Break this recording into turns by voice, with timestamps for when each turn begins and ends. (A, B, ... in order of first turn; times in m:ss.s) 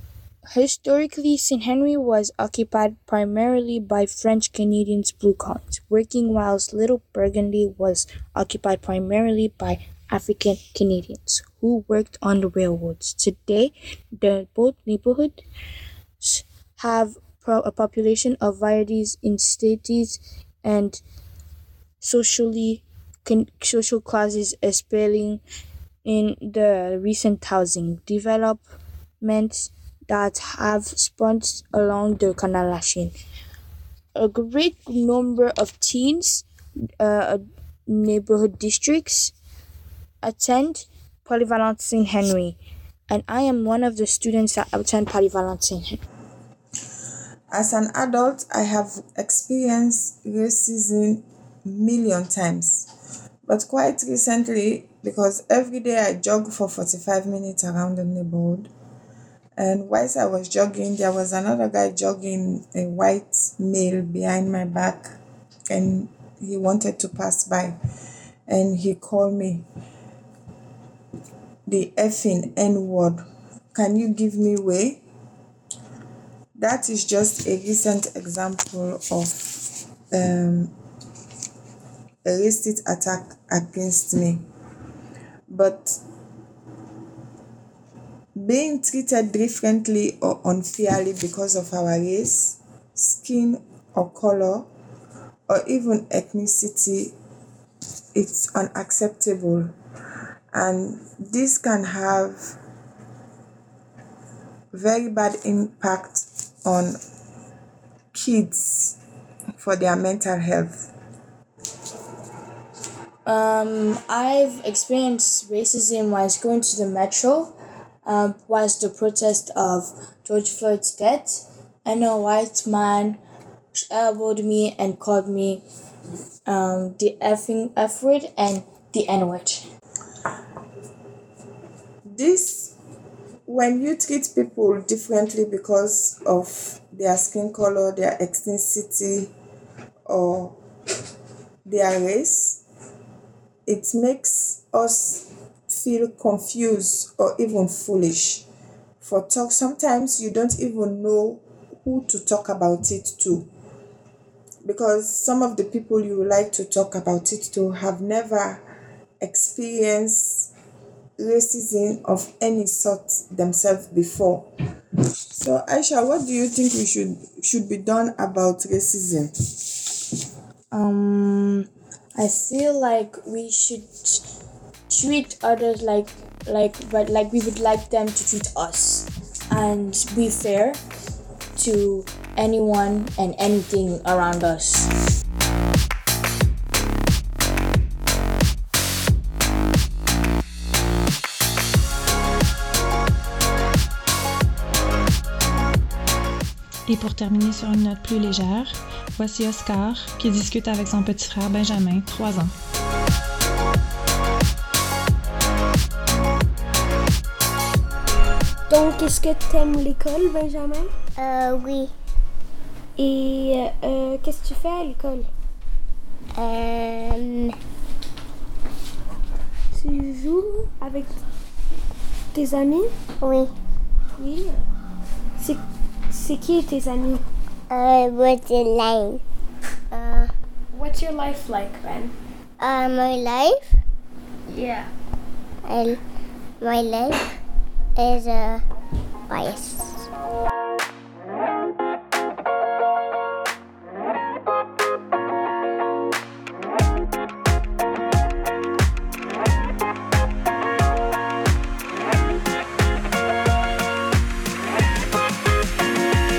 0:00.6-0:15.4 A
0:16.2-0:21.0 A
0:22.0-0:25.4 A
0:26.1-0:28.6 A
0:29.2-0:33.1 A
0:34.2-0:36.4 A
0:37.0-0:39.3 A
0:40.2-0:42.6 A
0:43.1-0:46.0 A
0:47.5-0:52.9 B
0:53.5-0:58.7 B
0:59.6-1:05.2 B
1:05.7-1:07.8 B
1:08.5-1:09.6 B
1:11.7-1:15.0 B
1:16.6-1:19.5 B
1:20.1-1:20.7 B
1:22.2-1:24.4 B
1:25.5-1:26.0 B
1:28.4-1:34.7 B
1:35.5-1:37.1 B
1:38.2-1:39.7 B
1:40.5-1:42.6 B
1:44.7-1:47.0 B
1:48.1-1:49.0 B
1:49.6-1:50.8 B
1:53.3-1:57.5 A
1:58.1-2:03.2 A
2:03.9-2:05.6 A
2:06.5-2:09.6 A
2:12.1-2:12.8 B
2:13.5-2:19.3 B
2:20.1-2:20.6 B
2:21.6-2:22.6 B
2:23.7-2:28.4 B
2:29.0-2:33.5 B
2:34.6-2:38.6 B
2:39.2-2:40.5 B
2:41.2-2:44.5 B
2:45.3-2:49.3 B
2:50.7-2:54.2 A
2:54.9-3:00.8 A
3:01.6-3:04.9 A
3:16.9-3:22.5 C
3:28.8-3:30.9 D
3:31.2-3:31.9 E
3:33.0-3:35.3 D
3:36.4-3:37.5 E
3:39.8-3:41.1 D
3:42.3-3:42.9 D
3:43.2-3:43.5 E
3:44.2-3:44.6 D
3:46.1-3:47.2 D
3:47.7-3:49.2 E
3:49.9-3:50.3 E
3:50.8-3:52.1 D
3:52.6-3:53.7 E
3:55.6-3:56.0 E
3:56.6-3:57.2 E
3:58.0-3:58.6 E
3:59.3-4:00.0 E